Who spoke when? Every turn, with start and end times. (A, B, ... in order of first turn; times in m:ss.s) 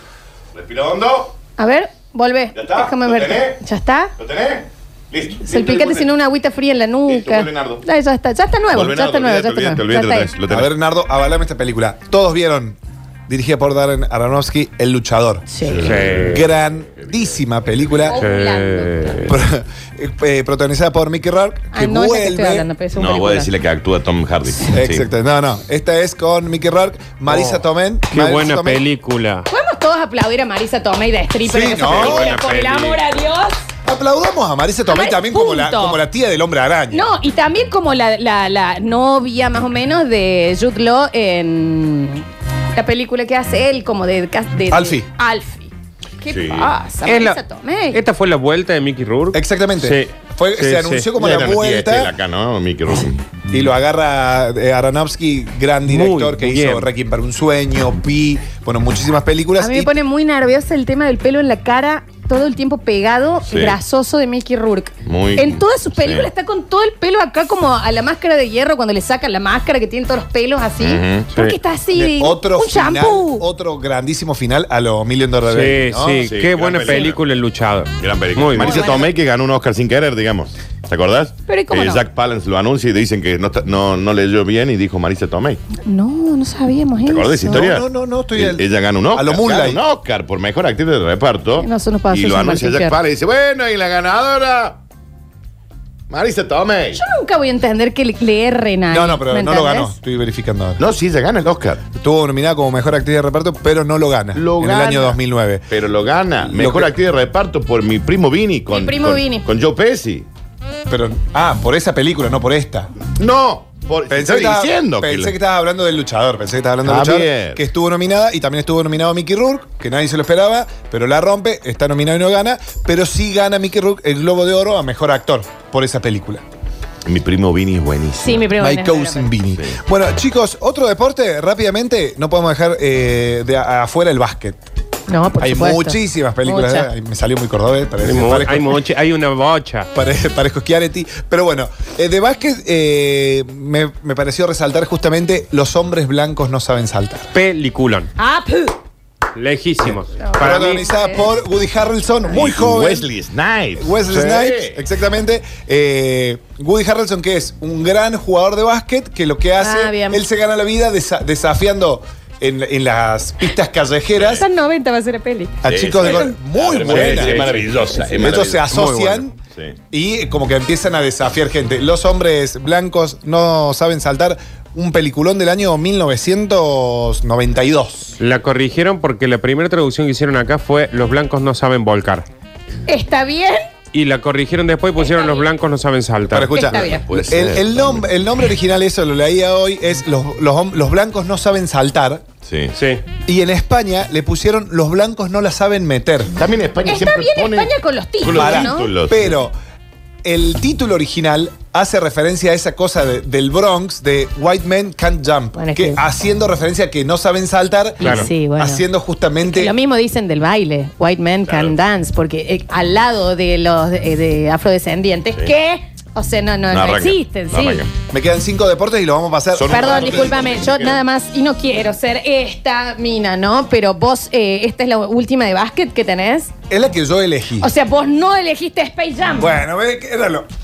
0:00.5-0:01.4 A
0:01.6-0:04.1 B
0:02.5-0:03.6 A
0:04.2-0:06.1 A
0:05.5-0:10.3 B
0:07.1-0:07.8 A
0:08.7-0:10.7 A
0:10.5-0:18.2 C
0:15.5-0:15.9 B
0:15.6-0:16.5 A
0:15.8-0:16.4 D
0:18.0-0:19.3 B
0:18.1-0:19.3 D
0:19.3-0:22.7 C
0:21.7-0:23.5 B
0:22.9-0:25.1 A
0:24.7-0:28.8 C
0:27.3-0:29.5 D
0:29.5-0:33.6 B
0:31.4-0:32.3 C
0:31.8-0:33.0 D
0:33.8-0:37.1 C
0:34.9-0:36.0 B
0:36.9-0:42.2 B
0:42.8-0:48.0 B
0:44.7-0:45.1 C
0:46.3-0:46.7 A
0:47.1-0:47.4 D
0:47.9-0:51.1 D
0:49.3-0:52.1 C
0:51.2-0:53.2 A
0:53.5-0:59.9 C
0:55.9-0:56.9 D
0:59.6-1:13.4 B
1:03.5-1:03.8 A
1:05.1-1:06.3 A
1:10.8-1:11.3 A
1:11.9-1:16.3 C
1:15.5-1:18.9 D
1:16.2-1:17.2 A
1:18.0-1:25.6 A
1:18.6-1:19.1 B
1:21.5-1:22.0 B
1:25.8-1:27.7 B
1:27.0-1:34.8 A
1:27.5-1:29.8 C
1:31.6-1:33.0 B
1:36.1-1:37.0 A
1:37.0-1:40.0 B
1:38.9-1:40.8 C
1:40.8-1:41.8 A
1:42.0-1:45.7 C
1:44.4-1:45.2 A
1:45.7-1:50.3 A
1:46.4-1:46.9 C
1:48.7-1:49.4 B
1:50.9-1:52.9 C
1:53.2-1:55.3 A
1:54.1-2:06.4 C
1:56.8-1:57.6 A
2:07.0-2:08.5 A
2:08.2-2:09.3 B
2:08.6-2:14.6 C
2:15.1-2:16.9 B
2:15.4-2:18.8 C
2:18.0-2:19.9 D
2:19.9-2:27.4 C
2:27.3-2:28.1 D
2:28.2-2:28.8 B
2:29.4-2:30.8 D
2:29.8-2:33.1 C
2:30.2-2:31.3 B
2:32.3-2:34.8 A
2:33.8-2:44.4 C
2:39.6-2:40.2 B
2:44.1-2:44.4 A
2:44.3-2:46.3 B
2:45.6-2:49.4 C
2:45.6-2:49.8 A
2:46.9-2:48.2 D
2:49.9-2:58.2 C
2:58.2-3:02.3 D
3:02.9-3:03.7 B
3:03.9-3:06.8 D
3:05.0-3:05.3 B
3:06.3-3:12.2 C
3:06.6-3:07.0 B
3:06.7-3:08.0 A
3:12.4-3:12.7 A
3:12.7-3:13.0 D
3:13.3-3:16.4 C
3:16.3-3:19.4 A
3:16.8-3:18.9 B
3:18.3-3:19.5 C
3:20.2-3:29.8 C
3:25.6-3:26.0 B
3:28.0-3:28.8 B
3:29.4-3:37.8 B
3:31.5-3:31.7 A
3:36.7-3:37.9 A
3:38.1-3:40.5 C
3:39.5-3:41.0 A
3:39.7-3:46.5 B
3:46.7-3:47.7 C
3:47.6-3:49.5 B
3:49.4-3:50.5 C